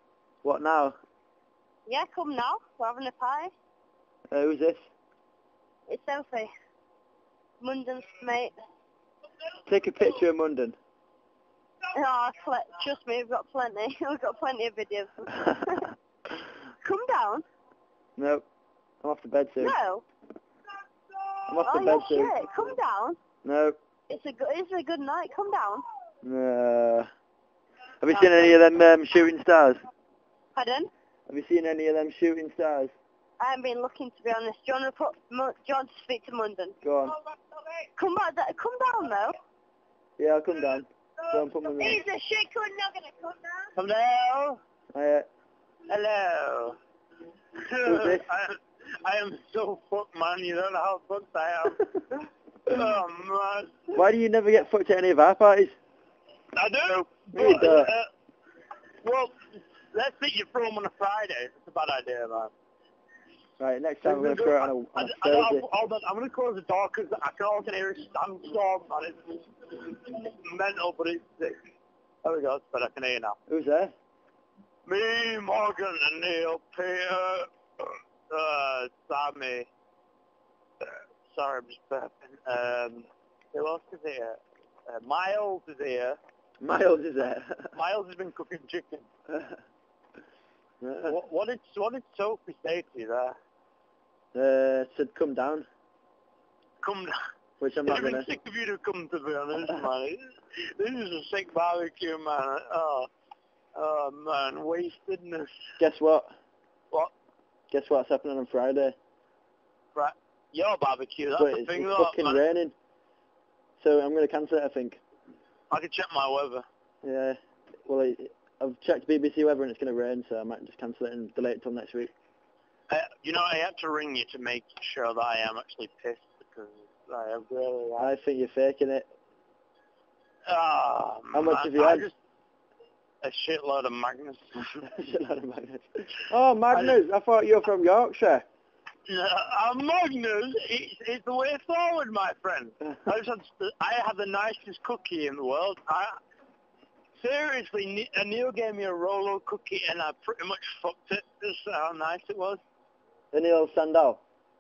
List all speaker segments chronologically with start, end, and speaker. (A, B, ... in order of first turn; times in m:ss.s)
0:00.4-0:01.0 A
0:01.9-0:03.5 B
0:04.3-0:04.9 A
0:05.9-0:06.5 B
0:07.6-0:08.5 B
0:09.7-0:10.8 A
0:11.9-0:15.9 B
0:16.8-0:17.5 B
0:18.2-0:18.4 A
0:19.0-0:19.8 A
0:19.6-0:20.0 B
0:21.5-0:22.4 A
0:21.6-0:23.2 B
0:23.4-0:23.8 A
0:24.1-0:25.8 B
0:26.2-0:27.1 A
0:28.0-0:29.8 A
0:30.6-0:30.9 B
0:31.3-0:32.9 A
0:33.4-0:36.8 B
0:36.8-0:37.2 A
0:38.0-0:39.4 B
0:40.2-0:42.0 A
0:41.8-0:43.7 B
0:43.8-0:44.6 C
0:44.9-0:45.3 A
0:45.9-0:46.8 C
0:47.6-0:53.8 C
0:47.8-0:48.3 A
0:53.9-0:55.8 A
0:56.6-0:58.1 C
0:57.4-0:57.9 A
0:59.0-0:59.4 C
0:59.9-1:02.5 C
1:03.6-1:05.6 A
1:04.0-1:11.6 C
1:12.2-1:13.4 C
1:13.5-1:14.0 A
1:14.9-1:19.7 C
1:20.8-1:26.2 C
1:26.6-1:27.7 A
1:27.7-1:29.1 C
1:30.8-1:31.2 A
1:31.0-1:33.4 C
1:34.3-1:35.7 A
1:36.8-1:37.2 C
1:37.6-1:38.3 A
1:37.9-1:43.1 C
1:43.8-1:45.5 C
1:45.8-1:46.3 A
1:47.7-1:49.0 A
1:50.0-1:52.4 C
1:51.4-1:52.8 A
1:53.8-1:55.0 A
1:55.7-1:56.6 C
1:57.0-2:02.1 A
2:02.9-2:08.1 C
2:08.0-2:09.1 A
2:10.5-2:12.2 C
2:11.3-2:12.1 A
2:13.2-2:14.8 C
2:14.9-2:18.4 A
2:16.7-2:17.0 C
2:19.1-2:26.2 C
2:27.2-2:32.6 C
2:33.3-2:34.2 A